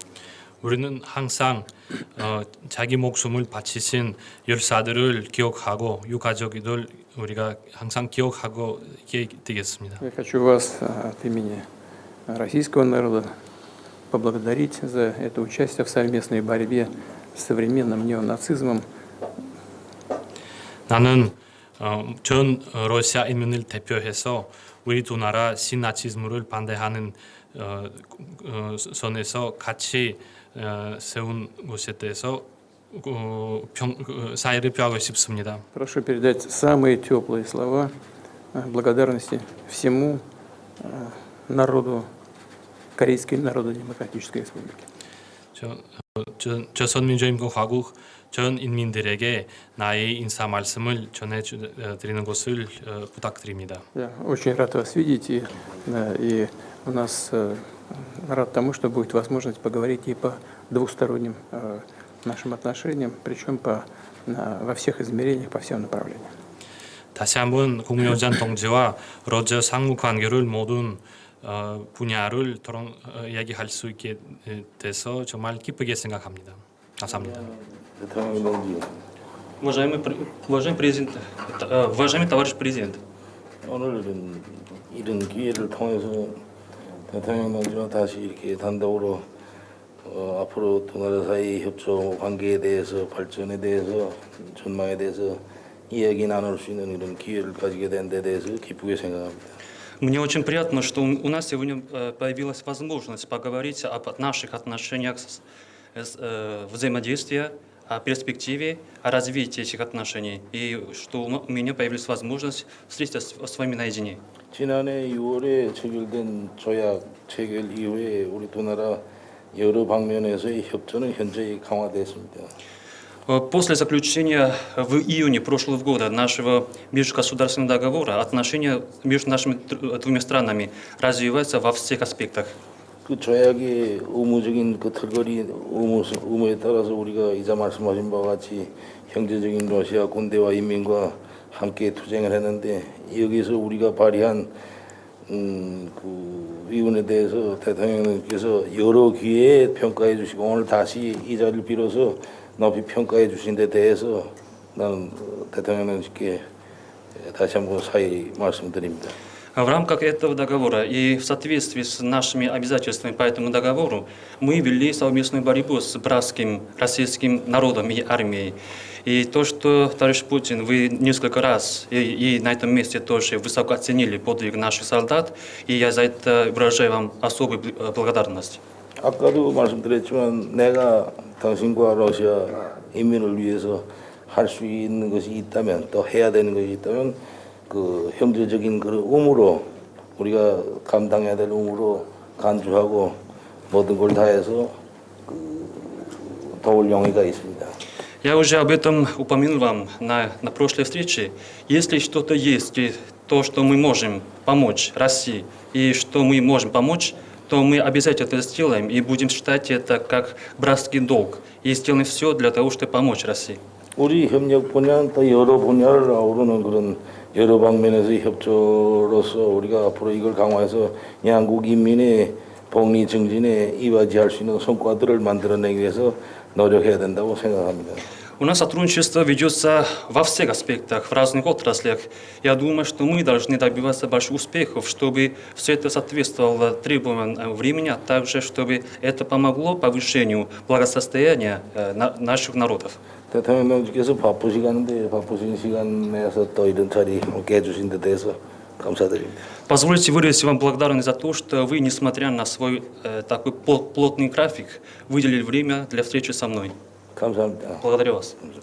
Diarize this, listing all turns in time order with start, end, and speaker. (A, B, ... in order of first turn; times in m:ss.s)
0:00.6-0:10.0 A
0:10.0-0:11.7 B
0:12.3-0:13.3 B
0:14.1-0:18.8 B
0:20.9-0:35.6 A
0:35.7-0:37.9 B
0:38.5-0:40.2 B
0:40.8-0:42.1 B
0:43.0-0:44.8 B
0:45.5-0:53.8 A
0:53.9-1:06.3 B
1:07.1-1:17.4 A
1:17.4-1:18.9 C
1:19.6-1:23.0 D
1:23.6-1:26.4 C
1:27.1-1:29.2 C
1:30.0-1:39.5 C
1:40.0-1:54.2 D
1:54.5-1:59.0 C
1:59.5-2:02.5 C
2:03.3-2:12.6 D
2:13.0-2:24.5 C
2:25.3-2:36.4 C
2:37.2-2:39.2 C
2:39.5-2:58.6 D
2:59.0-3:07.2 C
3:07.7-3:13.2 C
3:13.7-3:14.7 C
3:15.3-3:17.8 C
3:18.2-3:33.6 D
3:34.0-3:48.0 C
3:48.4-4:03.0 D
4:03.3-4:09.4 C
4:09.7-4:16.7 D
4:17.2-4:17.8 C
4:17.8-4:18.4 D